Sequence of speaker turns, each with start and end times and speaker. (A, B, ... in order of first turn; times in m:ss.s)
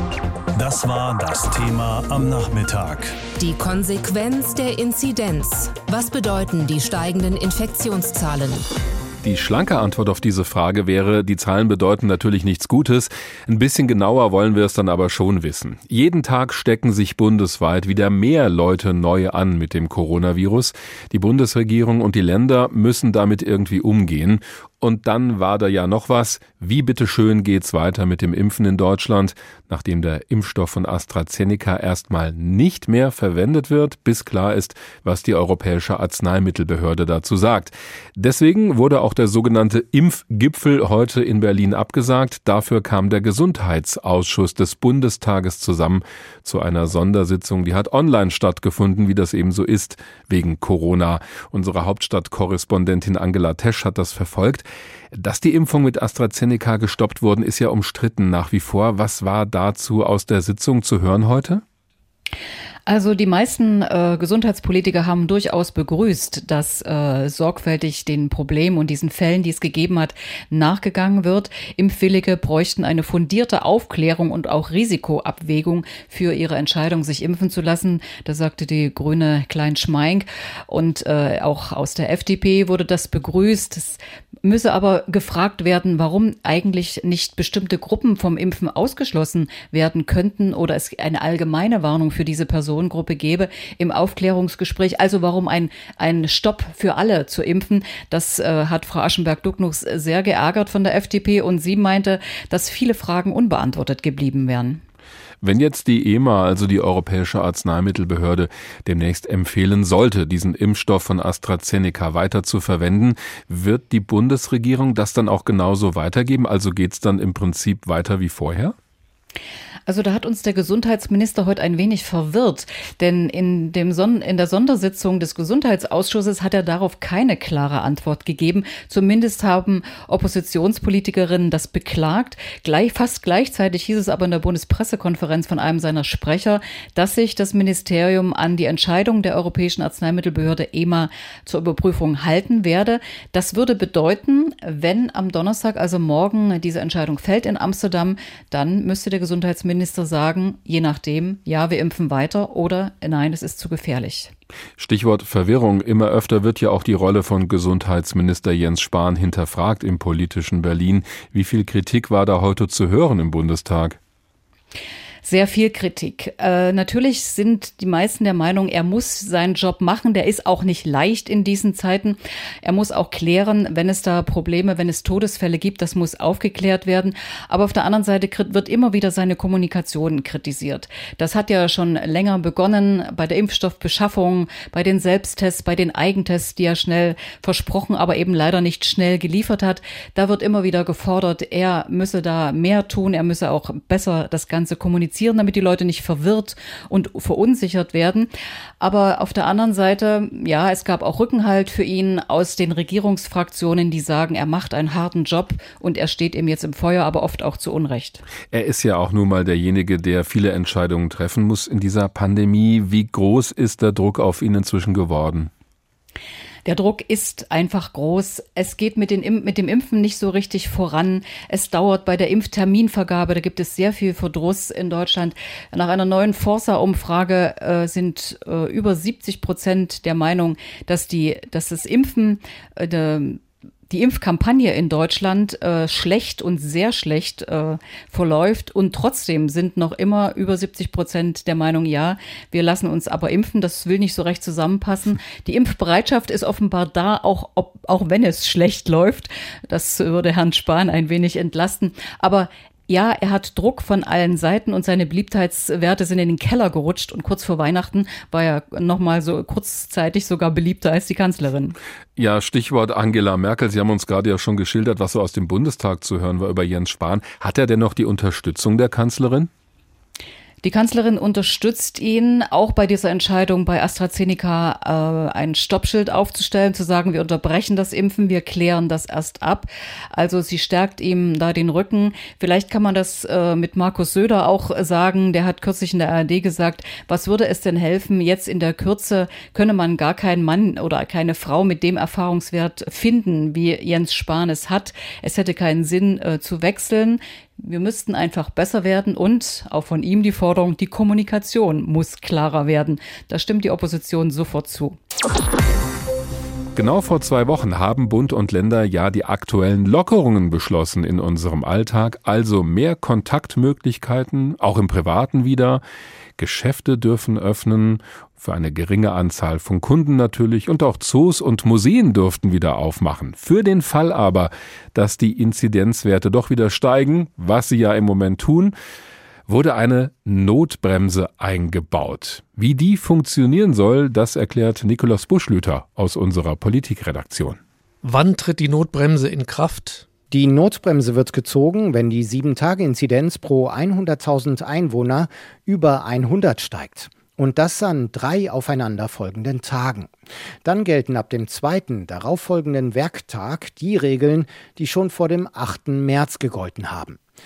0:00.6-0:03.2 A
0:03.4-0:08.6 B
0:09.2-1:01.6 C
1:02.9-1:44.8 D
1:45.4-1:58.8 C
1:59.9-2:34.3 D
2:34.8-2:44.0 C
2:45.2-3:18.3 D
3:18.8-3:28.2 D
3:28.5-3:35.5 C
3:36.7-4:21.8 D
4:22.2-4:29.5 C
4:30.6-5:05.0 D
5:06.8-5:15.8 C
5:16.4-5:28.7 C
5:29.5-5:37.6 C
5:38.0-5:40.0 E
5:40.3-5:50.1 F
5:50.6-5:57.2 F